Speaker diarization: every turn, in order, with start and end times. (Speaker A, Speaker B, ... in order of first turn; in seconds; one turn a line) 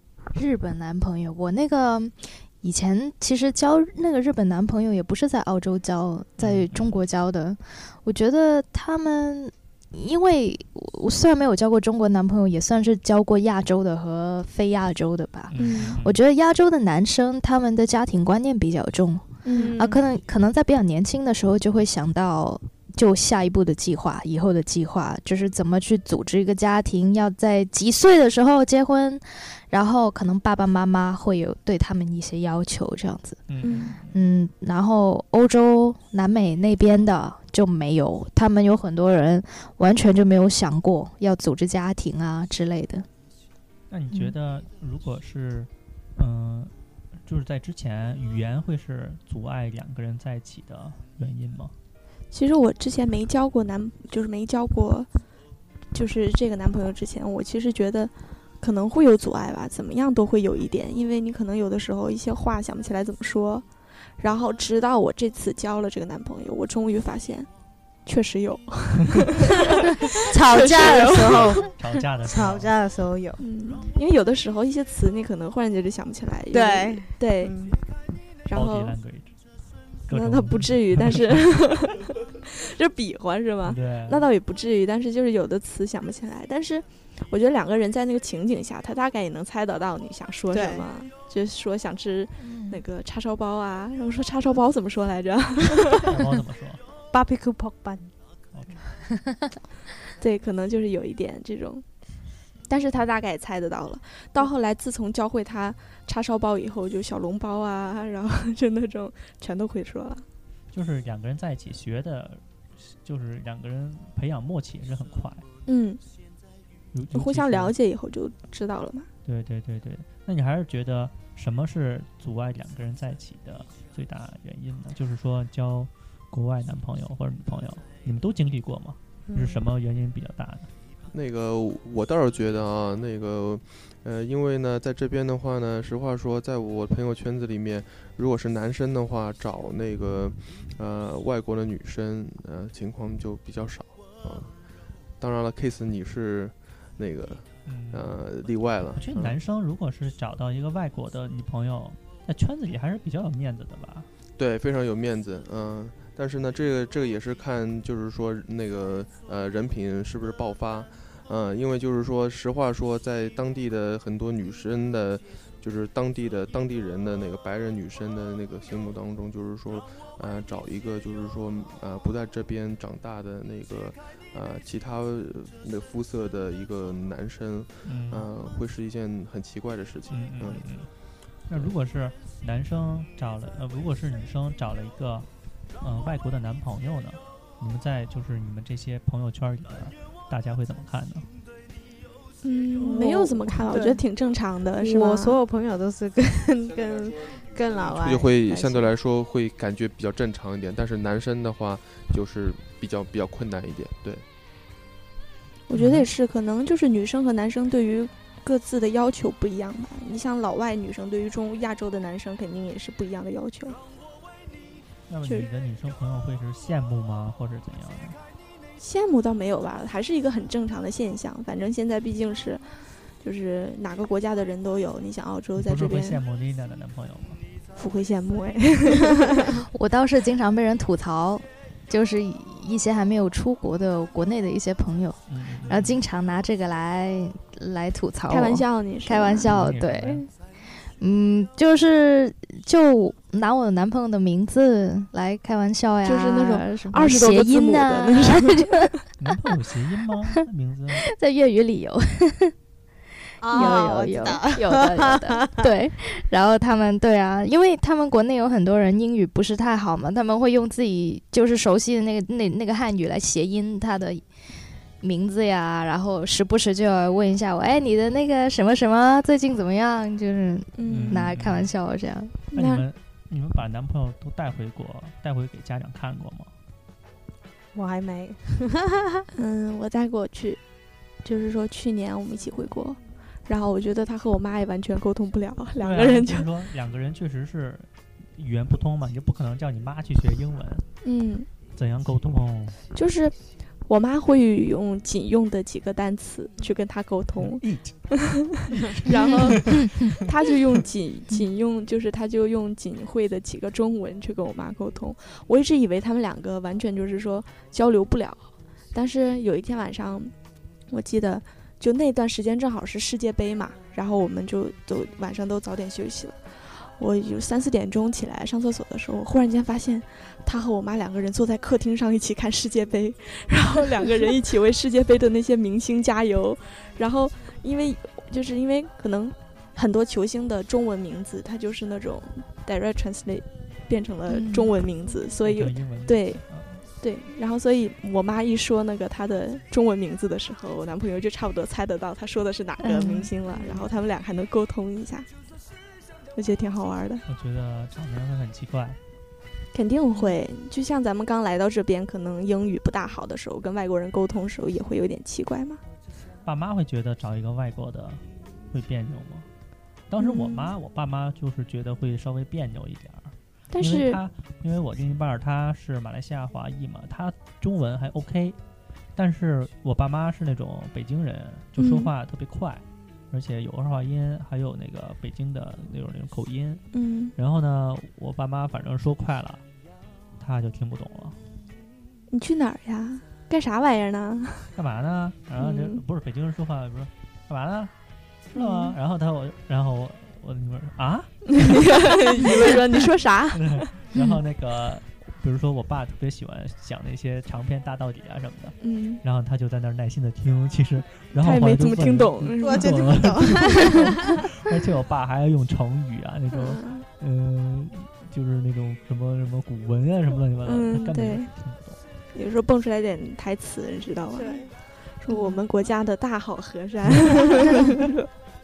Speaker A: 0.3-33.5
Speaker B: 6.4-7.0
Speaker B: 15.5-16.2
Speaker C: 15.6-15.9
Speaker C: 19.4-19.8
Speaker D: 19.5-20.0
Speaker B: 33.5-34.1
Speaker C: 33.6-34.0
Speaker A: 34.1-43.1
Speaker B: 43.9-46.7
Speaker B: 47.2-51.7
Speaker C: 52.3-55.1
Speaker C: 55.9-63.6
Speaker C: 64.2-67.5
Speaker C: 68.0-71.7
Speaker D: 70.2-71.7
Speaker B: 71.2-72.7
Speaker D: 72.2-73.4
Speaker C: 73.4-77.5
Speaker D: 76.5-77.8
Speaker C: 78.4-78.9
Speaker B: 78.5-79.3
Speaker B: 80.1-81.4
Speaker C: 80.1-96.1
Speaker B: 83.6-84.3
Speaker D: 90.5-90.8
Speaker A: 92.4-92.8
Speaker B: 96.0-96.8
Speaker D: 97.1-98.1
Speaker B: 98.5-98.8
Speaker C: 100.2-101.8
Speaker C: 102.7-110.2
Speaker B: 110.7-115.4
Speaker C: 115.7-116.0
Speaker B: 116.9-117.7
Speaker C: 117.1-119.1
Speaker B: 119.2-130.7
Speaker D: 129.3-129.6
Speaker E: 131.1-144.5
Speaker E: 145.2-149.4
Speaker B: 147.7-148.2
Speaker B: 148.9-154.1
Speaker E: 154.4-180.7
Speaker B: 177.8-178.3
Speaker B: 180.1-180.9
Speaker B: 181.4-185.3
Speaker B: 185.8-191.3
Speaker C: 192.4-195.4
Speaker D: 192.8-194.0
Speaker D: 194.8-198.9
Speaker E: 197.9-204.2
Speaker C: 205.7-213.8
Speaker B: 205.7-206.1
Speaker B: 215.1-218.2
Speaker C: 218.8-222.6
Speaker C: 223.2-226.2
Speaker B: 225.6-227.4
Speaker C: 227.8-229.6
Speaker A: 229.7-248.9
Speaker B: 235.3-236.0
Speaker C: 238.3-239.5
Speaker B: 239.5-240.2
Speaker C: 246.0-248.9
Speaker B: 249.2-251.0
Speaker A: 251.0-252.5
Speaker D: 253.4-255.6
Speaker A: 253.4-264.2
Speaker C: 253.5-254.0
Speaker A: 265.0-272.4
Speaker C: 270.8-271.3
Speaker B: 270.9-271.7
Speaker B: 272.5-276.5
Speaker C: 272.5-272.8
Speaker D: 277.7-279.2
Speaker C: 279.4-280.6
Speaker C: 281.2-286.5
Speaker B: 285.8-290.8
Speaker C: 291.0-291.5
Speaker B: 291.8-292.8
Speaker C: 292.9-293.3
Speaker C: 293.9-310.3
Speaker B: 297.4-300.2
Speaker A: 299.8-300.1
Speaker C: 310.9-336.4
Speaker A: 334.3-334.7
Speaker B: 335.4-336.8
Speaker C: 337.0-345.3
Speaker A: 342.8-343.3
Speaker C: 346.3-347.2
Speaker B: 347.3-349.0
Speaker C: 349.7-355.8
Speaker B: 356.4-359.5
Speaker B: 360.1-368.6
Speaker C: 360.2-360.7
Speaker C: 363.7-364.2
Speaker B: 369.1-376.8
Speaker C: 371.8-372.1
Speaker C: 376.9-377.3
Speaker B: 377.4-379.6
Speaker B: 380.4-381.4
Speaker C: 382.3-384.7
Speaker B: 384.7-387.9
Speaker C: 385.6-386.0
Speaker B: 388.5-392.7
Speaker C: 388.5-388.9
Speaker C: 391.6-393.9
Speaker B: 393.5-412.0
Speaker C: 398.8-399.2
Speaker C: 401.3-404.1
Speaker D: 402.6-404.4
Speaker C: 406.5-407.1
Speaker C: 410.6-411.5
Speaker C: 412.3-414.7
Speaker D: 414.3-414.7
Speaker C: 415.2-418.3